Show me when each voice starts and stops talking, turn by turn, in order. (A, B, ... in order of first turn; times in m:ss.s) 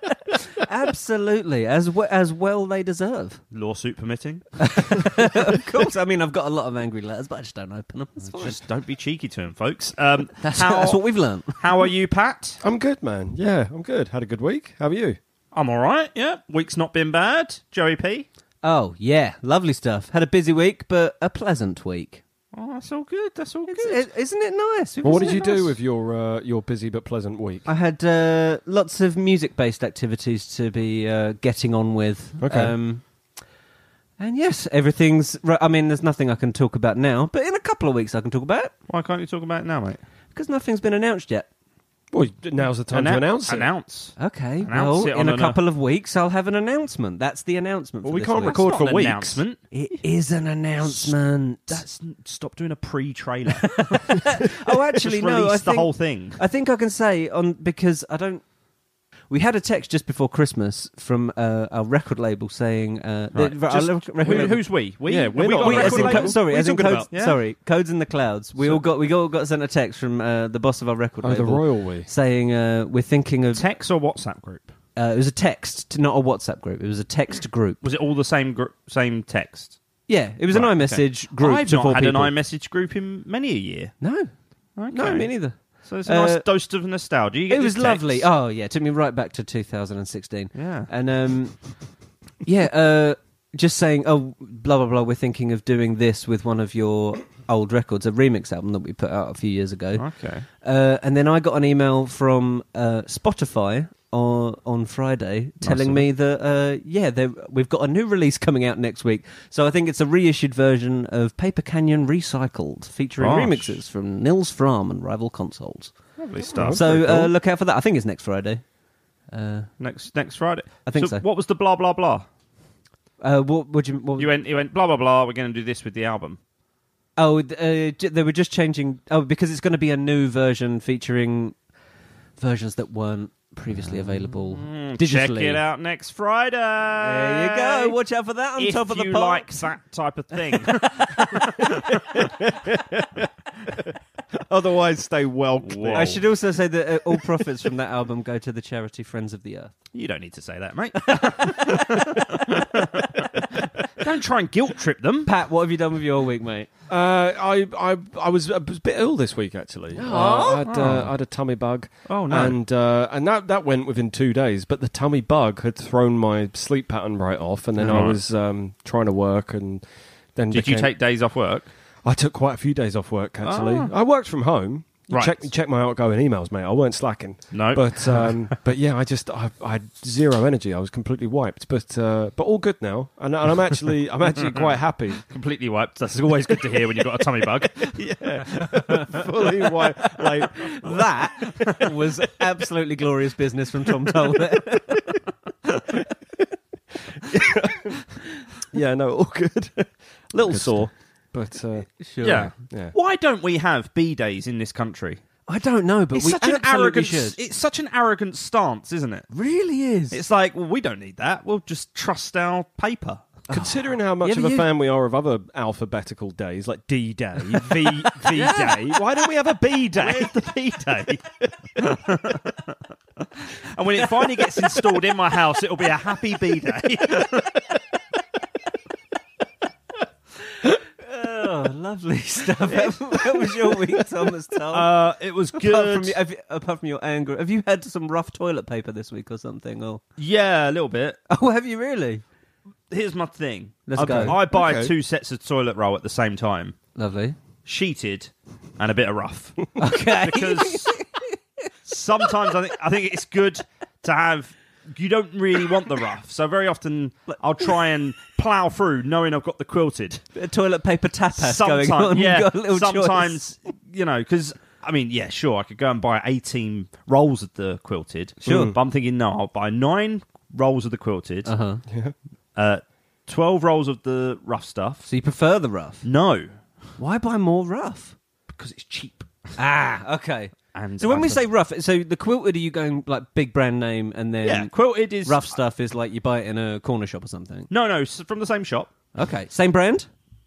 0:00.3-0:03.4 A
0:03.5-0:05.1 B
0:04.6-0:08.6 A
0:08.2-0:11.0 B
0:10.4-0:11.6 A
0:11.5-0:12.6 B
0:12.6-0:15.2 C
0:15.5-0:18.3 B
0:18.6-0:22.2 A
0:22.5-0:24.1 B
0:23.7-0:25.7 A
0:25.0-0:27.7 C
0:27.6-0:33.0 A
0:32.4-0:32.7 C
0:34.2-0:38.7 A
0:38.9-0:40.0 B
0:40.3-0:41.5 A
0:42.1-0:43.7 C
0:42.9-0:45.6 B
0:44.2-0:48.6 A
0:48.0-0:49.4 C
0:48.5-0:49.6 B
0:49.7-0:51.8 A
0:50.8-0:51.2 B
0:51.7-0:54.2 B
0:53.8-0:58.4 A
0:54.9-0:56.4 B
0:59.3-1:04.6 A
1:03.4-1:06.4 B
1:04.3-1:07.1 C
1:05.6-1:13.7 A
1:07.1-1:07.4 B
1:11.2-1:12.1 C
1:13.5-1:14.7 B
1:15.0-1:17.8 A
1:17.8-1:19.8 B
1:20.1-1:22.3 A
1:20.5-1:23.9 B
1:24.0-1:24.3 A
1:24.8-1:28.3 B
1:24.9-1:26.5 A
1:27.5-1:31.6 A
1:30.5-1:30.9 B
1:32.4-1:40.1 A
1:40.0-1:40.5 B
1:40.6-1:55.9 A
1:45.6-1:46.0 B
1:53.2-1:53.8 B
1:56.2-1:57.3 B
1:56.5-1:56.8 C
1:56.7-1:58.6 A
1:59.3-1:59.7 A
1:59.8-2:02.3 B
2:00.9-2:01.2 A
2:03.2-2:04.3 A
2:04.2-2:06.4 B
2:07.2-2:11.6 A
2:12.4-2:15.6 A
2:14.2-2:18.0 B
2:17.0-2:19.6 A
2:18.6-2:22.2 B
2:21.7-2:23.2 C
2:24.3-2:26.1 C
2:25.6-2:26.2 B
2:25.9-2:29.7 A
2:29.9-2:35.3 B
2:31.3-2:31.9 A
2:35.2-2:36.7 A
2:36.9-2:49.8 C
2:40.0-2:40.6 A
2:40.1-2:41.1 B
2:42.1-2:42.6 B
2:47.8-2:48.2 B
2:50.4-2:50.9 C
2:50.5-2:51.7 B
2:52.0-3:05.2 C
2:53.4-2:53.9 B
2:55.1-2:55.4 B
2:57.5-2:58.6 B
3:05.3-3:08.7 B
3:06.4-3:11.0 C
3:10.4-3:15.1 A
3:17.2-3:18.0 C
3:18.7-3:21.9 C
3:22.0-3:22.5 A
3:22.2-3:25.2 B
3:22.5-3:23.0 C
3:25.5-3:27.4 A
3:26.2-3:29.3 B
3:29.3-3:30.2 A
3:30.1-3:33.3 B
3:33.5-3:40.4 C
3:33.5-3:34.7 A
3:37.7-3:39.0 B
3:39.9-3:42.7 B
3:43.4-3:47.6 B
3:50.6-3:54.9 A
3:52.7-3:53.6 B
3:54.7-3:56.2 B
3:55.5-4:00.0 A
4:00.2-4:01.2 B
4:01.3-4:02.2 A
4:02.9-4:06.8 B
4:03.9-4:04.4 A
4:04.1-4:04.9 C
4:07.0-4:07.4 A
4:07.6-4:11.0 B
4:09.8-4:11.2 A
4:11.9-4:20.2 B
4:20.4-4:23.4 A
4:21.4-4:31.5 B
4:28.4-4:28.8 C
4:31.5-4:31.8 A
4:31.9-4:32.2 C
4:32.6-4:35.1 B
4:35.1-4:36.0 A
4:36.0-4:36.5 B
4:37.0-4:38.2 A
4:38.5-4:39.6 B
4:39.6-4:47.7 A
4:40.7-4:41.5 B
4:44.4-4:45.6 B
4:47.7-4:48.9 B
4:49.2-4:50.1 A